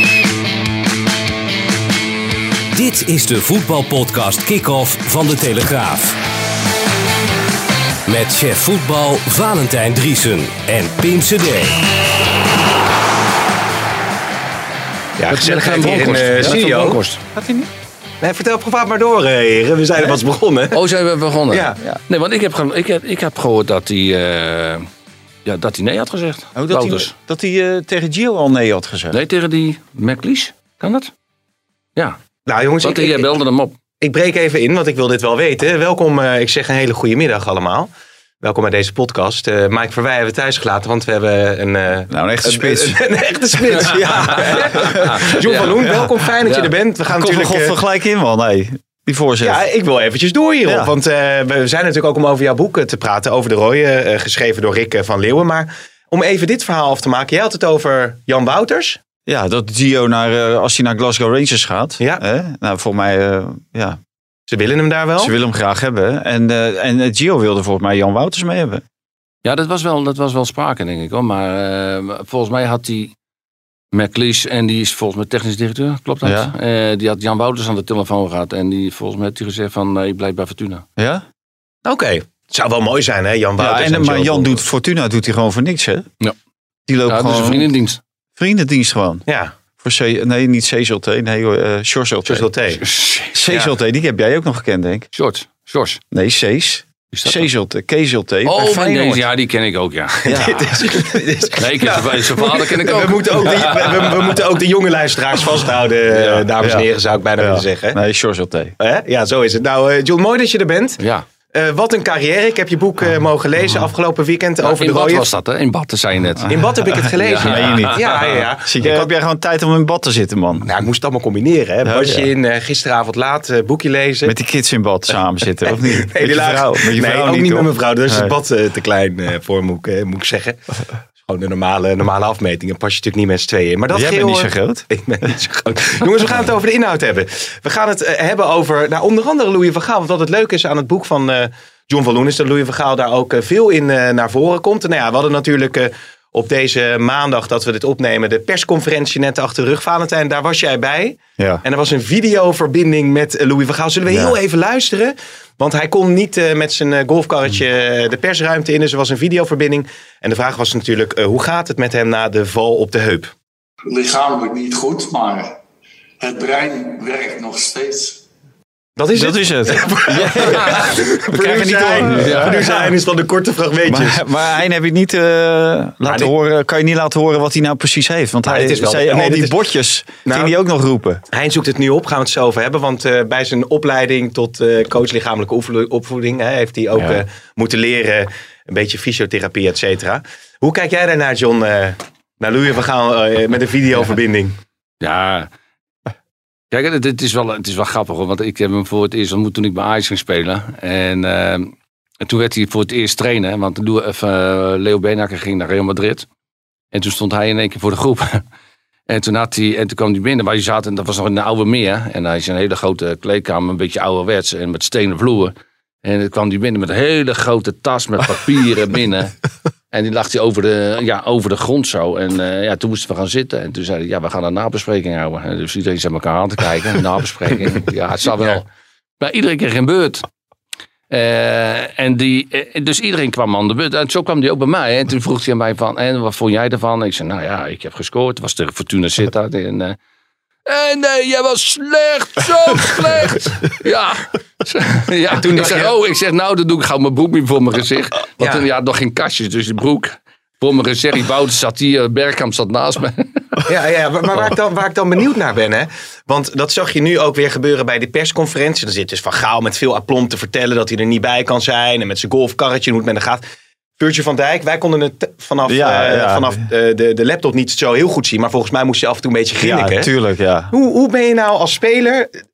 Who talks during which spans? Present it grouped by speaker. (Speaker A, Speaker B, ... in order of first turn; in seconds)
Speaker A: 2.7-6.2, 8.1-11.9
Speaker B: 15.2-17.0, 18.2-20.8, 21.5-21.8, 32.5-33.3, 34.0-37.9, 38.4-47.8, 49.4-59.0, 64.5-65.3, 81.8-84.6, 89.3-89.5, 92.2-92.8, 100.2-108.0, 108.8-111.0, 111.5-115.3, 116.5-119.1, 120.6-124.3, 125.6-130.6, 131.2-163.3, 169.0-174.3, 178.4-179.6, 180.2-180.5, 181.3-194.6, 245.3-245.9, 248.4-248.7, 253.7-263.4, 264.0-270.1, 270.7-272.4
Speaker C: 15.3-17.2, 20.7-24.9, 25.4-27.1, 29.1-31.1, 32.8-33.8, 44.4-45.8, 69.4-73.1, 73.9-80.8, 87.1-88.0, 92.8-93.4, 95.1-96.0, 97.1-97.5, 98.4-100.7, 101.6-104.4, 106.1-106.5, 111.0-111.2, 114.6-118.3, 170.4-170.9, 171.8-172.8, 195.0-195.5, 196.7-206.3, 206.9-208.4, 209.1-219.3, 219.9-228.7, 229.2-230.2, 231.1-240.0, 240.7-253.6
Speaker D: 16.0-17.7, 26.5-29.2, 42.1-43.0, 43.7-49.6, 50.6-50.9, 59.2-64.0, 65.2-68.8, 76.2-76.5, 81.0-81.2, 83.6-86.1, 86.9-87.7, 88.4-89.2, 89.8-92.5, 93.3-95.1, 96.1-99.2, 100.2-101.0, 107.4-108.7, 117.4-118.1, 118.6-120.7, 121.8-122.3, 124.2-128.3, 133.9-134.8, 154.1-154.3, 169.1-172.9, 173.9-181.2, 265.7-266.6, 269.6-270.7
Speaker E: 163.9-165.6, 166.2-168.2